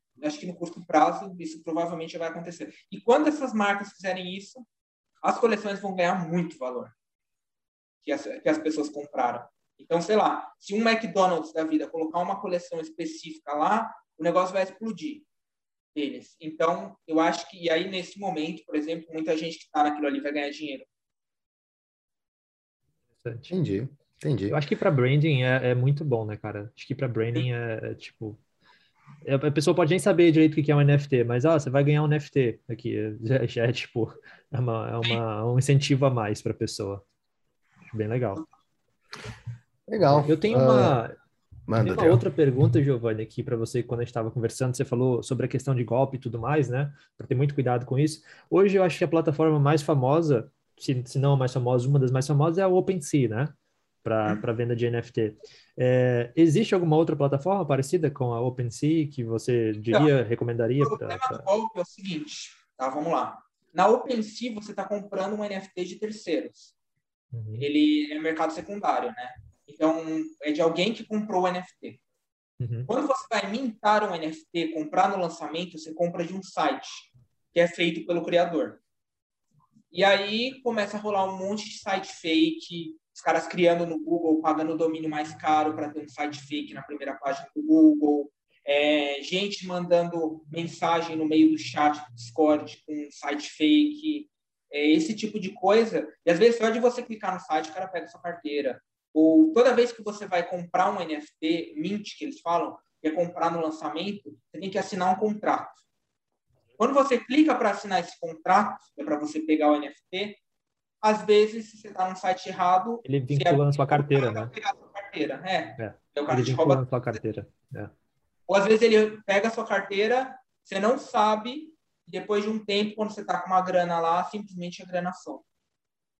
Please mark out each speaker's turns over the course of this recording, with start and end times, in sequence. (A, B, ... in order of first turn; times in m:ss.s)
0:00.2-0:04.6 A
0:05.2-0:06.9 A
0:08.0-0:15.2 A
0:15.9-0:20.9 A
0:23.2-0:23.6 B
0:23.5-0:24.6 C
0:24.5-0:28.4 B
0:29.2-0:37.0 B
0:37.9-0:38.4 B
0:39.9-0:41.0 C
0:40.1-0:41.1 B
0:41.7-0:42.2 C
0:41.8-1:01.4 B
1:00.8-1:06.7 A
1:07.3-1:07.6 B
1:07.6-1:12.0 A
1:12.6-1:12.9 B
1:12.9-1:18.8 A
1:19.9-1:45.8 A
1:46.8-1:50.4 A
1:51.0-1:57.2 A
1:53.0-1:54.5 B
1:55.8-1:57.9 B
1:58.5-2:05.4 A